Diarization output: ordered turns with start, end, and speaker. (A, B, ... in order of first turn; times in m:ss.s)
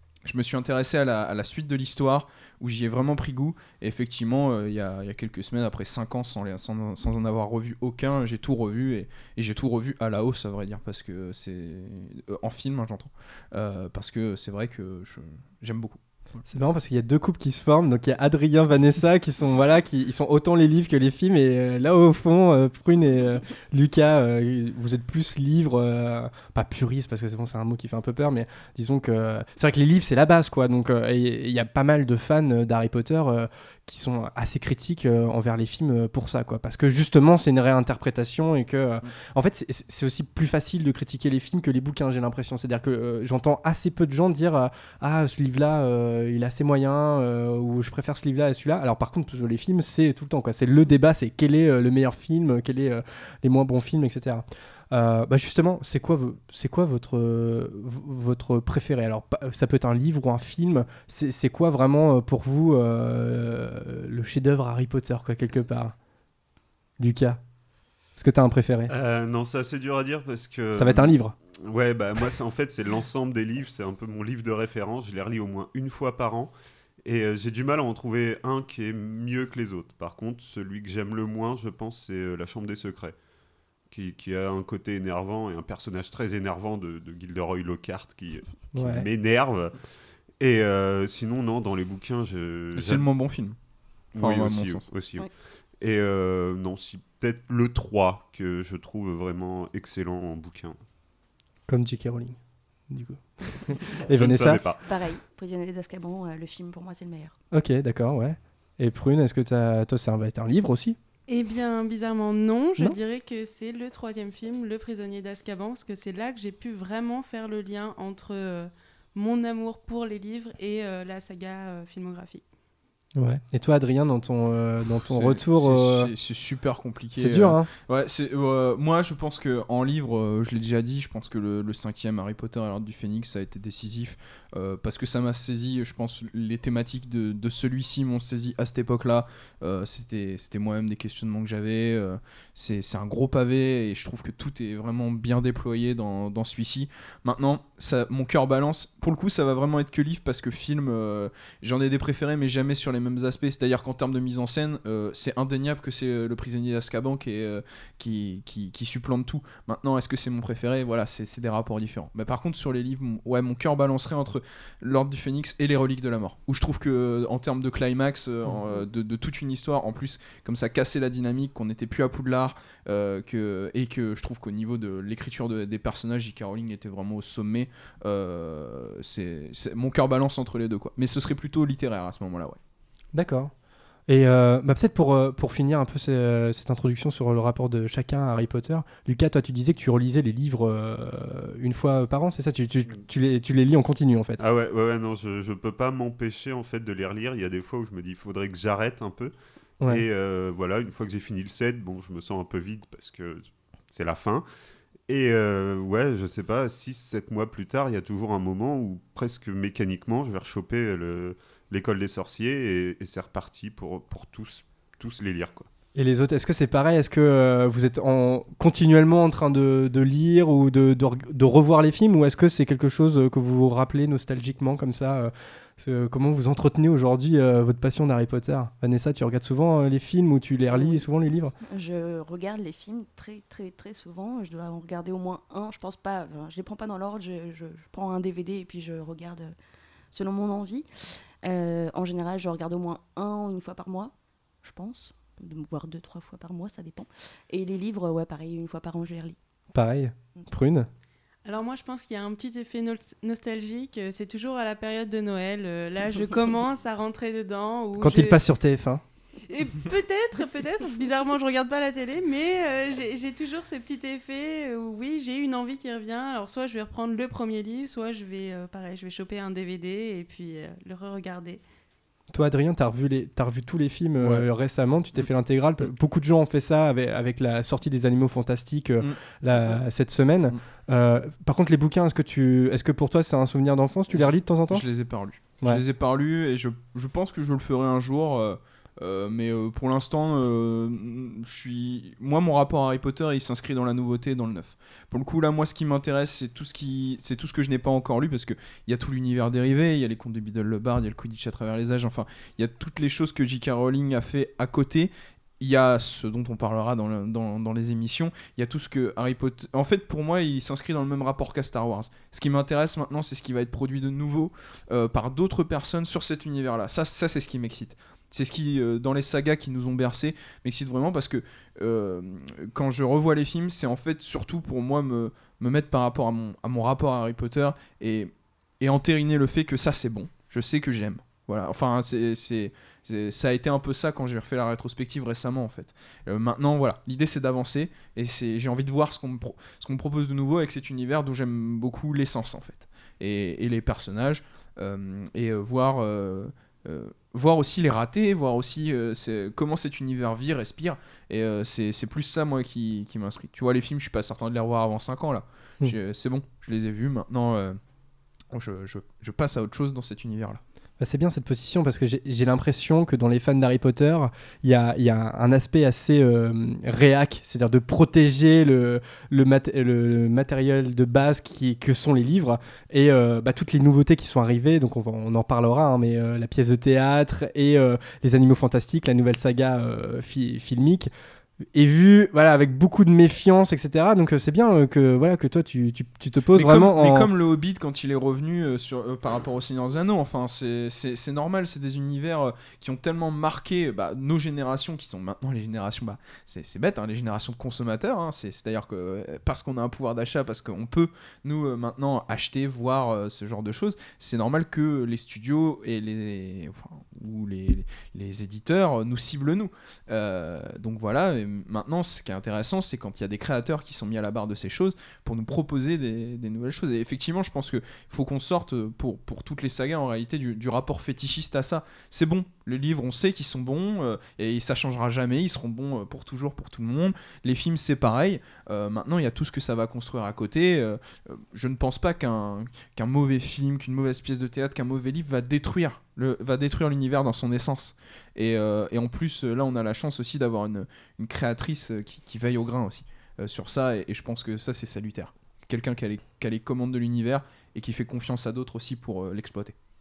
0:00.2-0:16.4 A
0:16.5-1:06.0 B
1:07.0-1:07.4 B
1:08.2-1:08.9 B
1:08.9-1:16.5 C
1:10.7-1:11.4 B
1:17.0-1:23.2 C
1:23.9-1:29.8 C
1:28.7-1:29.1 B
1:30.4-1:33.1 C
1:32.8-1:33.6 A
1:34.2-1:34.8 A
1:34.2-1:40.8 C
1:41.7-1:44.6 B
1:43.9-1:44.9 C
1:44.8-1:47.4 D
1:47.5-1:51.0 B
1:51.3-2:02.4 E
2:03.2-2:06.1 B
2:05.1-3:02.6 A
2:07.2-2:07.7 B
3:03.1-3:03.5 B
3:04.1-3:14.4 B
3:14.4-3:24.4 C
3:25.1-3:35.7 C
3:36.0-3:51.5 B
3:50.7-3:51.0 D
3:51.6-3:59.6 D
4:00.1-4:09.4 D
4:09.7-4:10.9 B
4:11.4-4:18.4 E
4:18.0-4:19.0 B
4:19.5-4:31.6 E
4:32.3-4:44.9 B
4:34.2-4:34.5 A
4:39.0-4:39.8 A
4:44.1-5:57.8 A
5:58.5-6:00.6 A
6:01.0-6:21.1 B
6:21.7-6:27.3 B
6:26.5-7:29.8 A